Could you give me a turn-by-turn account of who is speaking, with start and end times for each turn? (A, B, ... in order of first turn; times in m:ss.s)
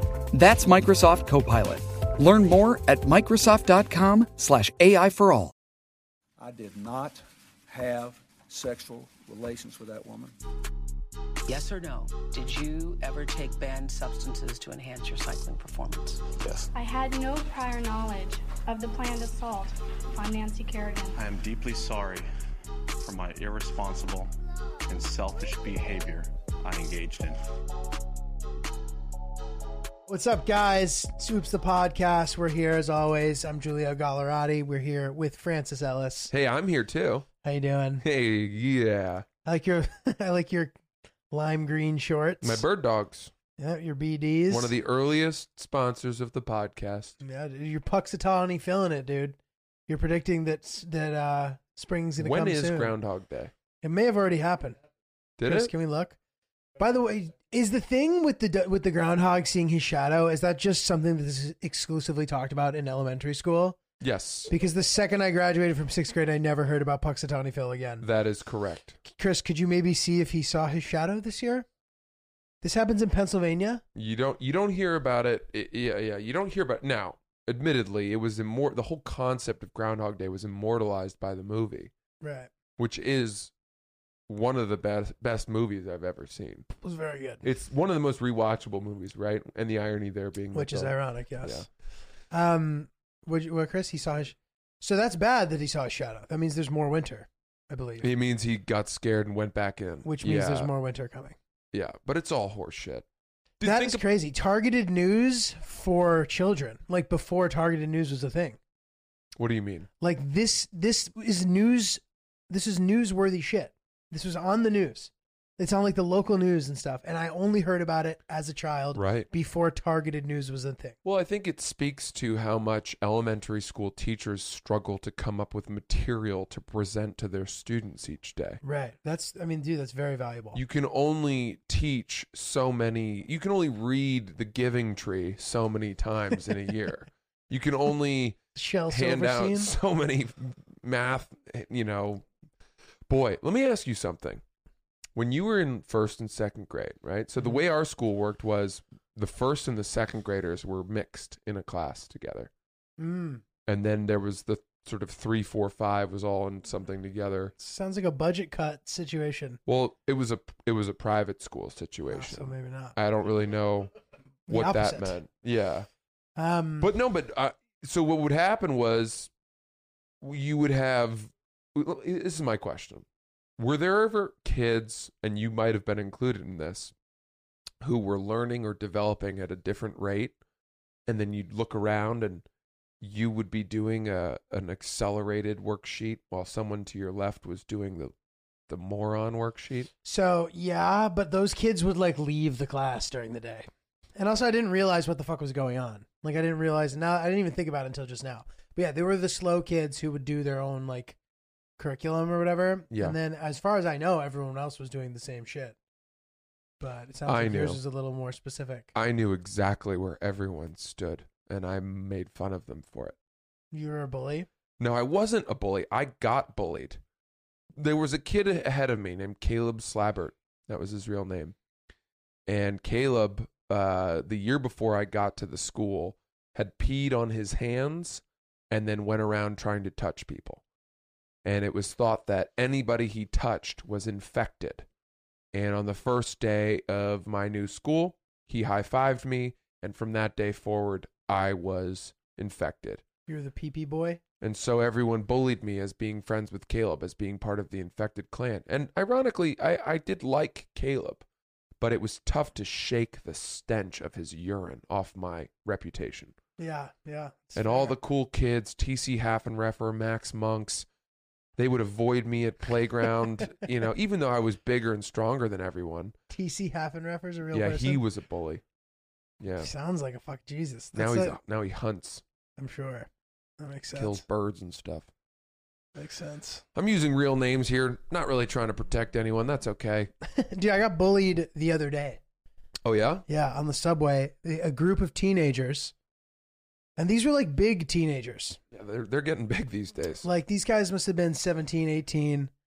0:00.3-0:05.5 A
0:06.4-0:10.3 B
0:11.5-0:16.2 C
0:16.4-0:16.7 D
0:16.7-0:21.2 E
0:21.2-0:22.3 D
0:23.0-0:24.3 D
0:24.9-0:27.4 D
0:30.1-0:36.3 F
0:36.3-0:37.3 G
0:37.4-0:38.0 F
0:38.0-0:39.2 G
0:39.4-0:40.8 F
0:41.3-0:42.6 F
0:42.4-0:43.3 G
0:43.6-0:44.7 F
0:44.5-0:47.1 G
0:47.2-0:52.9 F
0:52.2-0:53.5 G
0:53.8-0:54.8 F
0:55.4-0:55.7 G
0:55.4-0:56.2 F
0:56.8-1:03.8 F
1:04.0-1:04.5 G
1:04.5-1:08.1 F
1:08.0-1:09.0 G
1:09.0-1:11.6 F
1:12.6-1:13.8 F
1:13.9-1:21.9 G
1:22.2-1:22.5 F
1:22.8-1:23.5 G
1:24.3-1:26.7 G
1:26.8-1:27.4 F
1:27.4-1:31.7 G
1:30.5-1:31.6 F
1:32.3-1:38.1 F
1:38.0-1:40.7 G
1:40.0-1:41.4 F
1:41.7-1:43.0 G
1:43.6-1:44.0 G
1:43.6-1:48.6 F
1:49.4-1:49.9 G
1:50.0-2:01.0 F
1:58.9-1:59.3 G
2:01.0-2:08.6 G
2:08.6-2:10.6 F
2:10.5-2:22.3 G
2:18.5-2:19.7 F
2:23.1-2:24.4 G
2:25.1-2:32.5 G
2:33.0-2:33.4 F
2:33.7-2:37.5 G
2:37.6-2:39.6 F
2:39.7-2:43.9 G
2:42.1-2:42.9 F
2:44.5-2:45.2 F
2:44.5-2:45.9 G
2:46.4-2:46.9 F
2:46.8-2:49.3 G
2:50.2-2:53.0 G
2:53.6-2:56.9 G
2:57.8-3:00.4 G
3:01.1-3:02.4 G
3:03.0-3:08.1 G
3:08.7-3:09.9 G
3:10.0-3:21.2 F
3:21.8-3:25.8 F
3:22.9-3:23.2 G
3:26.8-3:28.9 F
3:27.2-3:27.8 G
3:28.9-3:33.2 G
3:33.7-3:34.5 F
3:34.8-3:37.0 G
3:37.7-3:41.6 G
3:42.5-3:50.6 G
3:51.4-3:54.8 G
3:55.5-4:03.0 G
4:03.3-4:04.2 F
4:04.4-4:11.2 G
4:11.8-4:16.3 G
4:16.6-4:17.9 F
4:17.5-4:20.9 G
4:21.6-4:26.1 G
4:26.3-4:28.0 F
4:27.5-4:28.6 G
4:29.4-4:29.7 G
4:29.6-4:31.4 F
4:30.9-4:32.2 G
4:32.6-4:34.2 F
4:33.9-4:35.1 G
4:35.9-4:36.6 F
4:36.7-4:40.1 G
4:40.2-4:42.2 F
4:42.8-4:43.2 G
4:43.3-4:45.9 F
4:47.0-4:48.6 F
4:48.7-4:50.2 G
4:50.2-4:52.5 F